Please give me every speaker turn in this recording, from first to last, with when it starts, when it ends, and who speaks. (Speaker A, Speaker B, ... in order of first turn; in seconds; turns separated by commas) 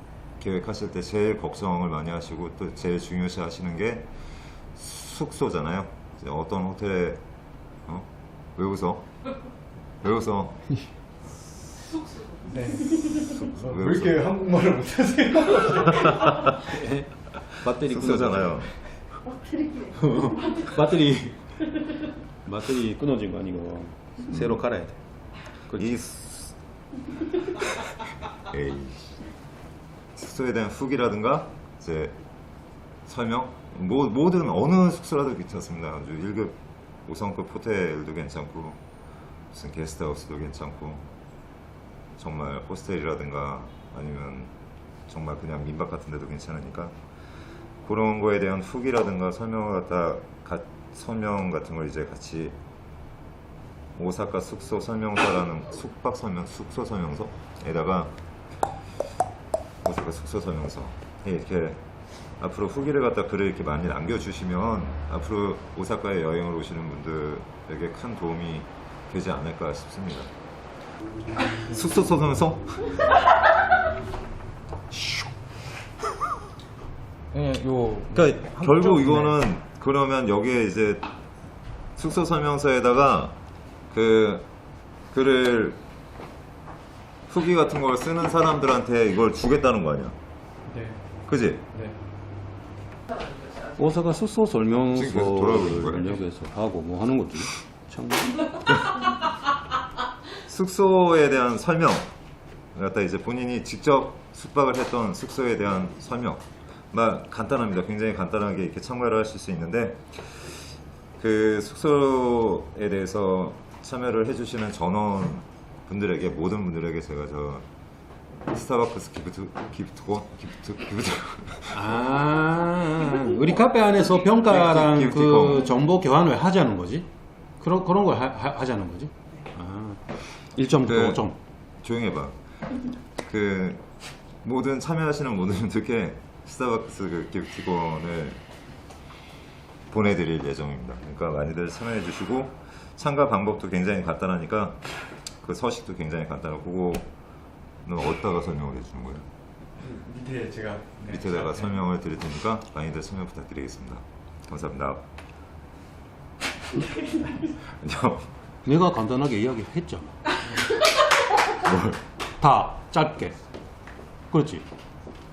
Speaker A: 0.4-4.1, Speaker A: 4.8-7.2, Speaker A: 7.9-9.2, Speaker A: 10.0-10.8, Speaker B: 12.4-16.5, Speaker A: 13.1-14.2, Speaker C: 16.6-18.6, Speaker A: 17.8-18.7, Speaker C: 19.9-25.0, Speaker C: 25.7-25.9, Speaker A: 25.7-26.6, Speaker A: 28.4-29.2, Speaker A: 30.2-32.2, Speaker A: 33.0-38.8, Speaker A: 39.5-41.0, Speaker A: 42.2-44.5, Speaker A: 45.1-46.9, Speaker A: 47.8-52.5, Speaker A: 53.9-58.1, Speaker A: 59.8-61.8, Speaker A: 62.4-70.3, Speaker A: 71.6-73.1, Speaker B: 77.3-79.3, Speaker A: 78.1-81.1, Speaker A: 82.0-83.3, Speaker A: 83.9-84.5, Speaker A: 85.1-85.8, Speaker A: 87.3-90.2, Speaker B: 90.7-91.1, Speaker A: 91.3-91.7, Speaker C: 93.7-98.9, Speaker A: 94.9-96.2, Speaker A: 100.5-102.1, Speaker A: 102.7-117.7, Speaker A: 118.5-121.8, Speaker C: 121.7-127.1, Speaker A: 124.4-125.7, Speaker C: 127.6-131.3, Speaker A: 130.8-131.2, Speaker A: 131.8-132.4, Speaker A: 133.2-133.8, Speaker A: 134.4-138.4, Speaker A: 139.9-144.8, Speaker A: 145.4-147.1, Speaker A: 147.8-149.2, Speaker B: 149.8-151.7, Speaker A: 151.1-155.0, Speaker A: 157.5-158.3, Speaker C: 158.7-160.3, Speaker A: 161.5-162.0, Speaker C: 162.4-163.3, Speaker C: 164.3-164.6